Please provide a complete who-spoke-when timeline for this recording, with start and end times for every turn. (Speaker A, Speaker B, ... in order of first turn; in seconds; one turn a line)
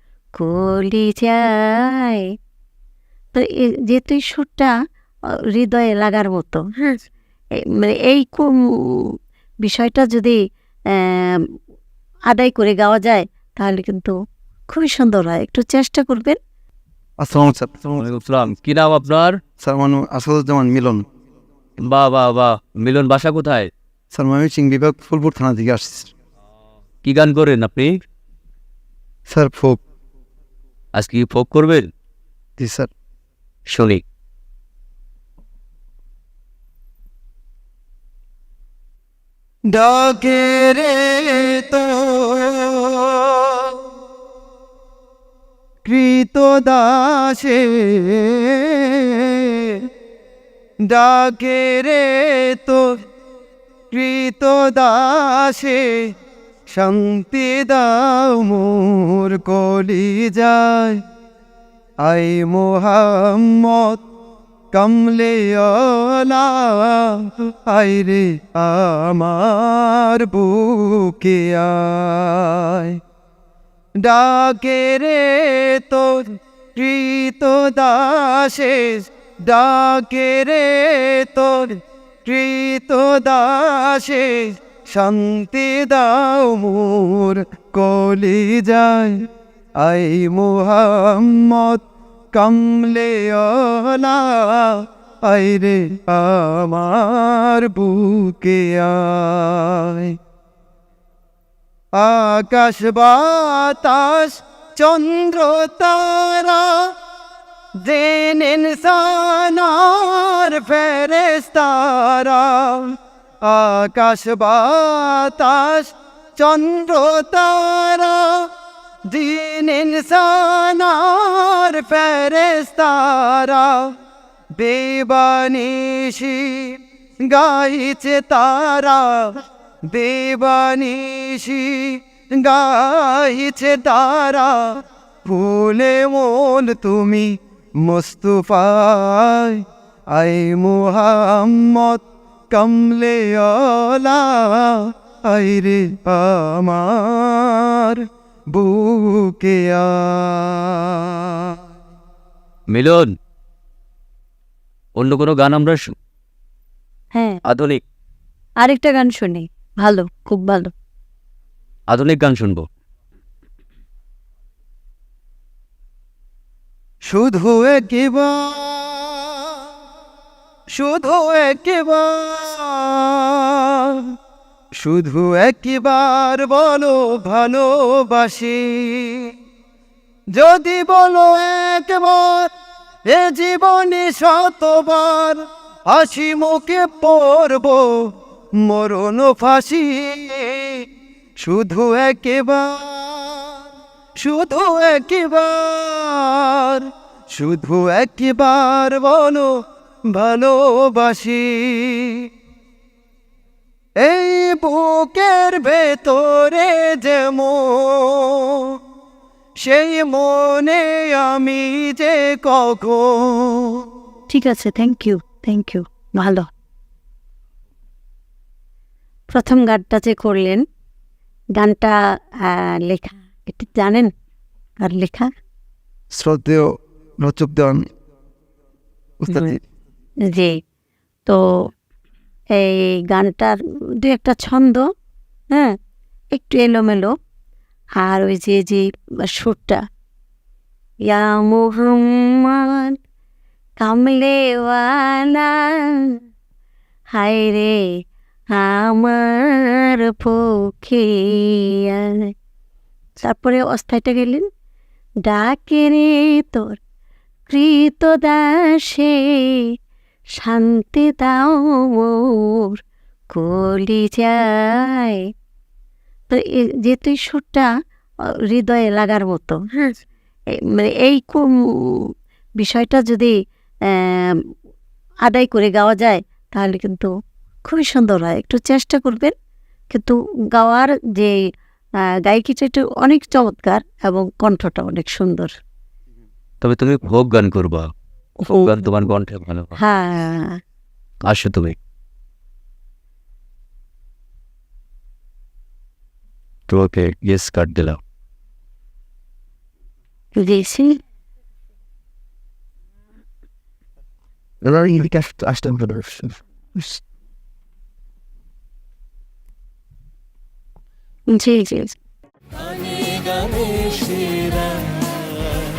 Speaker A: 0.3-2.2
Speaker A: 3.3-4.7
Speaker A: 5.5-6.9
Speaker A: 7.8-10.4
Speaker A: 10.9-11.4
Speaker A: 12.3-14.1
Speaker A: 14.7-16.4
Speaker B: 17.2-18.1
Speaker C: 18.0-19.4
Speaker B: 19.6-21.0
Speaker C: 21.8-23.7
Speaker B: 24.1-26.1
Speaker C: 27.0-28.0
Speaker B: 29.3-29.8
Speaker C: 30.9-31.9
Speaker B: 32.6-32.9
Speaker C: 33.7-34.0
Speaker B: 39.7-43.7
Speaker B: 45.8-49.7
Speaker B: 50.9-52.8
Speaker B: 53.9-56.0
Speaker B: 56.7-61.0
Speaker B: 62.0-64.0
Speaker B: 64.7-73.0
Speaker B: 74.0-89.1
Speaker B: 89.8-91.8
Speaker B: 92.3-100.1
Speaker B: 101.9-106.9
Speaker B: 107.8-112.9
Speaker B: 113.4-118.4
Speaker B: 119.1-123.9
Speaker B: 124.6-129.3
Speaker B: 129.9-139.6
Speaker B: 140.1-148.0
Speaker B: 148.5-151.1
Speaker C: 152.7-153.1
Speaker C: 155.0-155.9
Speaker C: 157.5-157.8
Speaker A: 158.6-160.7
Speaker C: 161.9-162.6
Speaker B: 167.1-169.4
Speaker B: 170.7-173.9
Speaker B: 174.8-179.2
Speaker B: 180.3-182.5
Speaker B: 183.1-187.9
Speaker B: 188.6-190.8
Speaker B: 191.4-193.5
Speaker B: 194.2-199.5
Speaker B: 200.1-202.2
Speaker B: 204.0-208.7
Speaker B: 209.6-213.8
Speaker A: 214.3-216.4
Speaker A: 219.3-220.6
Speaker A: 221.6-221.9
Speaker A: 222.4-224.1
Speaker A: 224.8-225.3
Speaker B: 226.1-226.7
Speaker B: 227.2-227.8
Speaker B: 229.2-229.6
Speaker A: 230.3-230.6
Speaker A: 232.6-234.8
Speaker A: 236.3-237.1
Speaker A: 238.0-239.8
Speaker A: 241.1-242.9
Speaker A: 243.8-246.0
Speaker A: 247.2-247.8
Speaker A: 248.5-252.3
Speaker A: 253.2-254.4
Speaker A: 255.2-256.8
Speaker A: 257.5-259.6
Speaker A: 260.4-262.8
Speaker A: 263.3-265.2
Speaker A: 266.3-267.6
Speaker A: 268.5-269.9
Speaker A: 270.7-273.3
Speaker A: 273.9-274.4
Speaker A: 275.2-277.1
Speaker A: 277.7-279.3
Speaker A: 279.9-281.4
Speaker A: 282.2-285.5
Speaker C: 286.6-287.9
Speaker C: 288.5-289.8
Speaker A: 289.8-290.6
Speaker C: 291.3-291.8
Speaker C: 296.7-298.0
Speaker A: 300.4-301.0
Speaker D: 304.6-307.0
Speaker A: 311.3-311.9
Speaker C: 312.6-315.3